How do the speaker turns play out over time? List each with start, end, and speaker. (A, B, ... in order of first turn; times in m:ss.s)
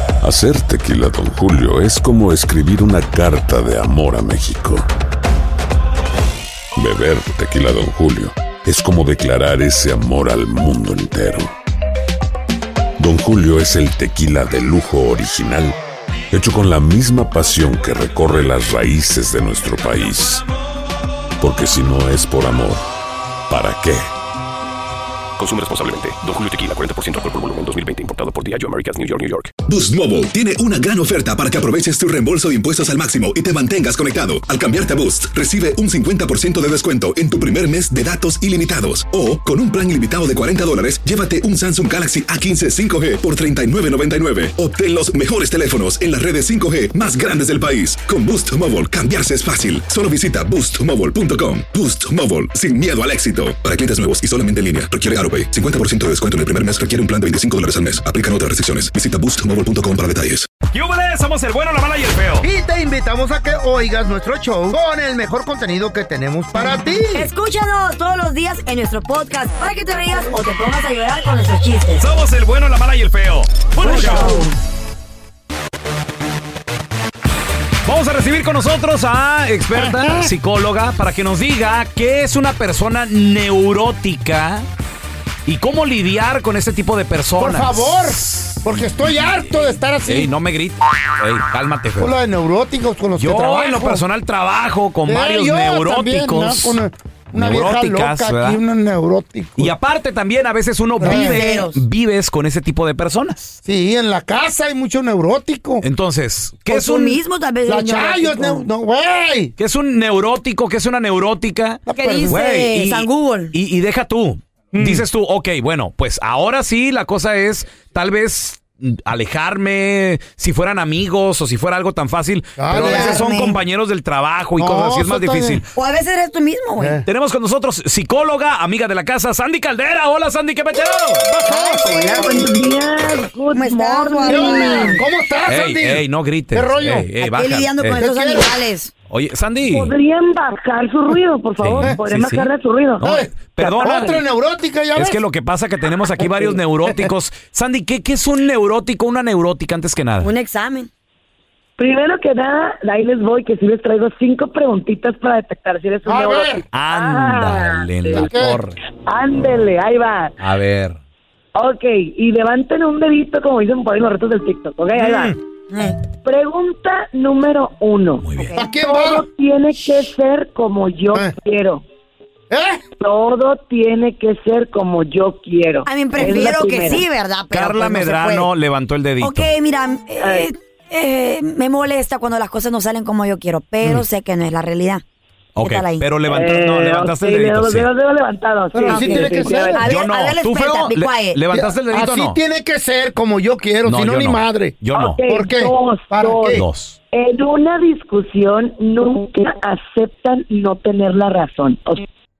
0:00.2-0:04.8 A
0:06.8-0:11.5 A
0:13.0-0:15.8 A
0:16.3-0:20.4 A
0:21.4-0:22.8 A
0:23.5-0:24.0 A
0:25.4-0:29.5 B
0:29.6-1:00.5 C
1:00.7-1:02.5 D
1:02.4-1:07.3 E
1:07.1-1:12.0 F
1:12.0-1:14.4 D
1:13.8-1:14.5 F
1:17.8-1:24.6 D
1:19.7-1:20.3 E
1:25.4-1:32.2 D
1:27.4-1:30.3 E
1:32.0-1:34.0 E
1:33.2-1:36.8 D
1:35.1-1:39.7 E
1:37.3-1:38.6 D
1:39.6-1:43.6 D
1:41.0-1:41.4 E
1:41.0-1:41.8 F
1:43.6-1:45.8 E
1:45.8-1:47.2 D
1:46.7-1:48.6 F
1:47.6-1:49.5 E
1:49.6-2:05.7 D
1:51.9-1:52.5 E
1:51.9-1:53.5 F
1:54.7-1:55.0 E
2:02.6-2:03.2 E
2:02.7-2:03.6 F
2:04.6-2:05.6 E
2:05.7-2:07.0 F
2:06.8-2:07.0 E
2:07.0-2:12.3 D
2:11.4-2:12.5 F
2:12.0-2:15.0 G
2:13.5-2:15.0 F
2:14.2-2:17.1 E
2:15.4-2:18.0 D
2:17.2-2:18.9 F
2:18.0-2:18.5 E
2:19.1-2:19.9 D
2:19.6-2:23.1 G
2:21.6-2:22.5 D
2:23.0-2:24.2 D
2:23.0-2:25.2 E
2:23.6-2:24.2 G
2:24.9-2:30.3 D
2:30.2-2:30.9 F
2:31.8-2:38.3 G
2:36.0-2:36.6 E
2:36.7-2:38.8 D
2:38.1-2:38.6 E
2:39.0-2:40.3 G
2:40.4-2:41.0 D
2:41.5-2:45.4 G
2:44.9-2:45.4 E
2:45.7-2:46.0 F
2:46.2-2:51.8 G
2:48.2-2:48.6 D
2:48.6-2:49.2 E
2:52.5-2:52.8 E
2:53.0-2:57.0 G
2:55.8-2:58.5 F
2:57.5-2:59.5 D
2:59.2-3:05.0 F
3:00.2-3:00.5 G
3:05.6-3:07.9 D
3:05.6-3:06.0 F
3:06.2-3:09.9 G
3:08.7-3:09.8 E
3:08.9-3:11.4 F
3:09.8-3:12.4 D
3:11.5-3:14.8 E
3:13.8-3:15.2 D
3:14.9-3:22.0 G
3:15.3-3:16.6 E
3:16.5-3:17.0 D